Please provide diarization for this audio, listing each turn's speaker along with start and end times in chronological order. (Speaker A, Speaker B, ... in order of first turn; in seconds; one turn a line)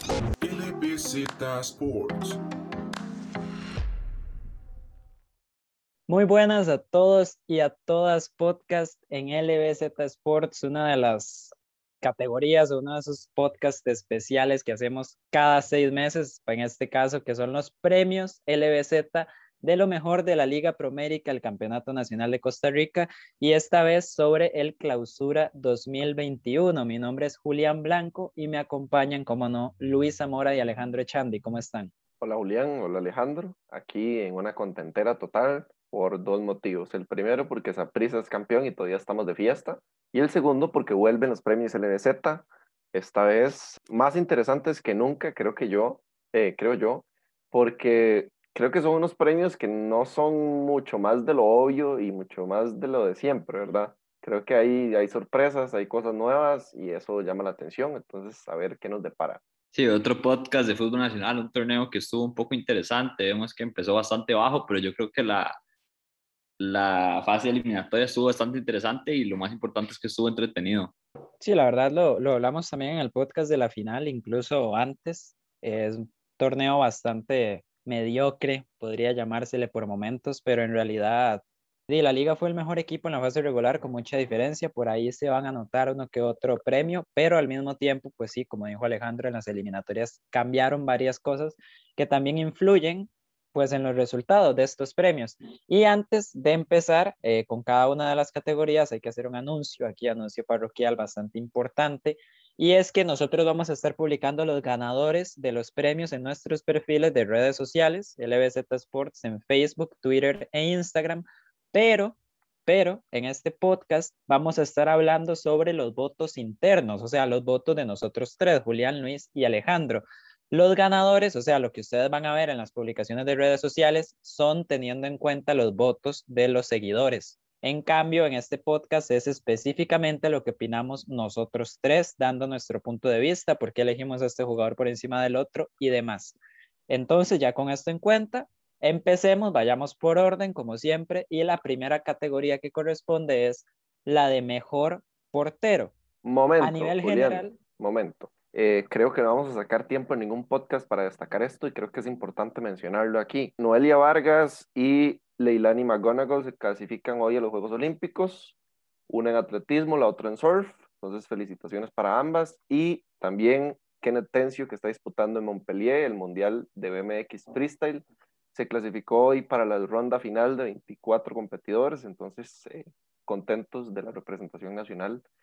Speaker A: 0.4-2.4
Speaker B: 6.1-31.9
Speaker C: 32.2-59.4
Speaker D: 59.7-65.6
Speaker D: 66.6-70.9
Speaker B: 71.4-136.4
Speaker B: 136.9-145.9
Speaker C: 146.2-158.6
Speaker B: 146.6-147.6
Speaker C: 159.1-175.2